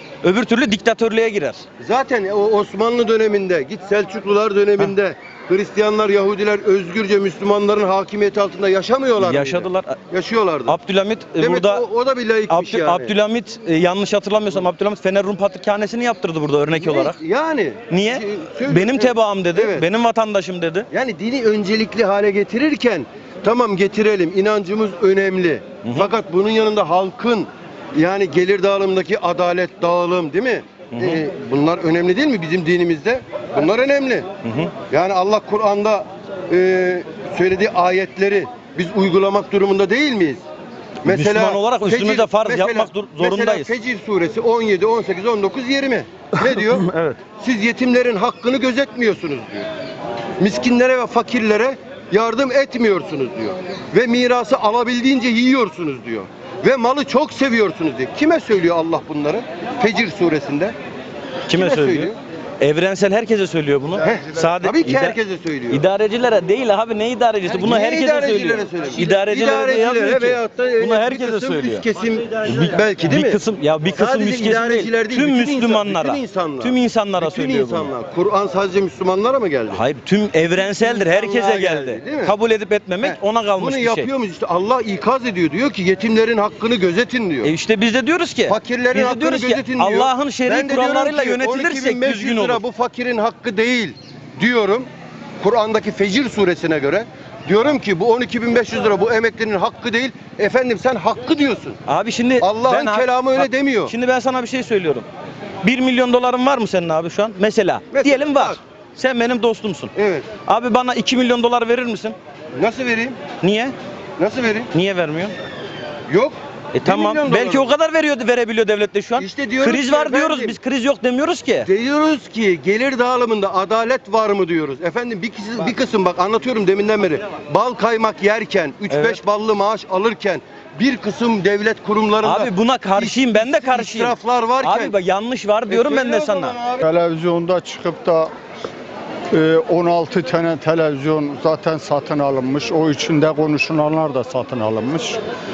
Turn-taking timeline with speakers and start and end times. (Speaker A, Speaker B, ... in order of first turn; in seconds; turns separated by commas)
Speaker A: 0.2-1.6, Speaker B: 1.8-10.7, Speaker A: 9.2-10.0, Speaker A: 10.7-11.8, Speaker B: 11.4-13.1, Speaker A: 12.5-17.2, Speaker B: 16.8-19.8, Speaker A: 17.9-20.9, Speaker B: 20.9-34.3, Speaker A: 25.8-26.1, Speaker A: 30.9-31.2, Speaker A: 34.4-34.7, Speaker B: 34.9-40.4, Speaker B: 41.0-49.7, Speaker A: 41.0-43.7, Speaker A: 46.9-47.1, Speaker B: 50.4-60.8, Speaker A: 61.5-65.2, Speaker B: 61.5-62.1, Speaker B: 64.0-65.8, Speaker A: 65.7-71.8, Speaker B: 67.6-73.4, Speaker A: 72.5-77.9, Speaker B: 73.9-79.8, Speaker A: 79.7-84.1, Speaker B: 80.5-82.3, Speaker B: 83.0-87.5, Speaker A: 87.4-92.6, Speaker B: 88.5-94.9, Speaker B: 95.4-101.8, Speaker A: 101.9-105.0, Speaker B: 102.4-103.9, Speaker A: 105.6-109.9, Speaker B: 107.9-108.6, Speaker B: 110.0-110.3, Speaker A: 110.5-112.2, Speaker B: 112.5-113.2, Speaker A: 113.4-113.7, Speaker B: 114.2-114.7, Speaker A: 114.7-115.3, Speaker B: 116.1-117.7, Speaker A: 116.7-121.7, Speaker B: 119.2-120.6, Speaker B: 121.6-134.9, Speaker A: 128.9-129.2, Speaker A: 132.2-136.6, Speaker B: 135.7-136.8, Speaker C: 136.8-138.3, Speaker C: 139.3-145.2